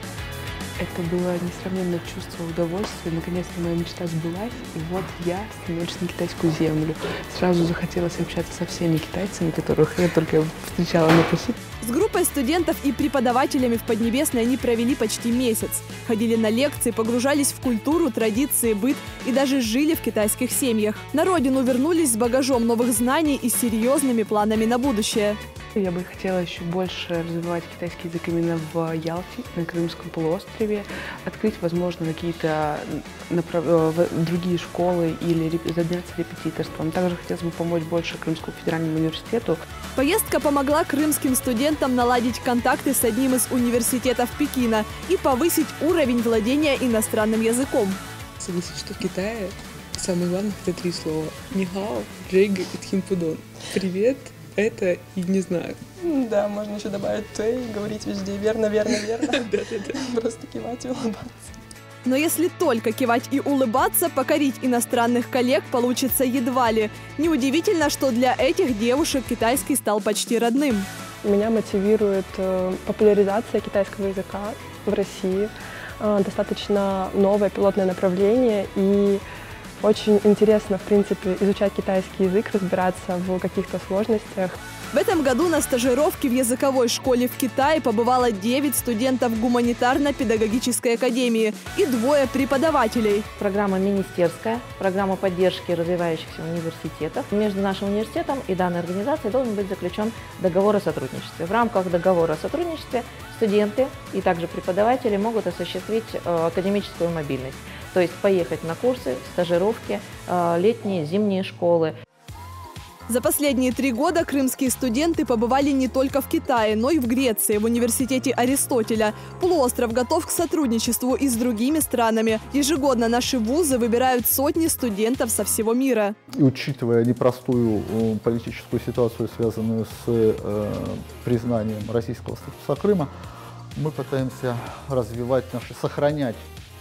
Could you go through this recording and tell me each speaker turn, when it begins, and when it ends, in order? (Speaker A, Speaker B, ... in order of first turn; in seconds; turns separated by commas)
Speaker A: 0.8-11.6, Speaker B: 11.8-25.4, Speaker A: 25.8-39.6, Speaker B: 39.9-48.0, Speaker A: 48.4-55.8, Speaker C: 56.0-59.4, Speaker A: 58.9-60.0, Speaker C: 60.3-61.3, Speaker B: 62.0-70.9, Speaker D: 71.2-79.2, Speaker D: 79.8-84.6, Speaker B: 84.9-93.2, Speaker E: 93.4-111.9, Speaker B: 113.1-126.1, Speaker F: 126.3-133.1, Speaker F: 133.8-136.4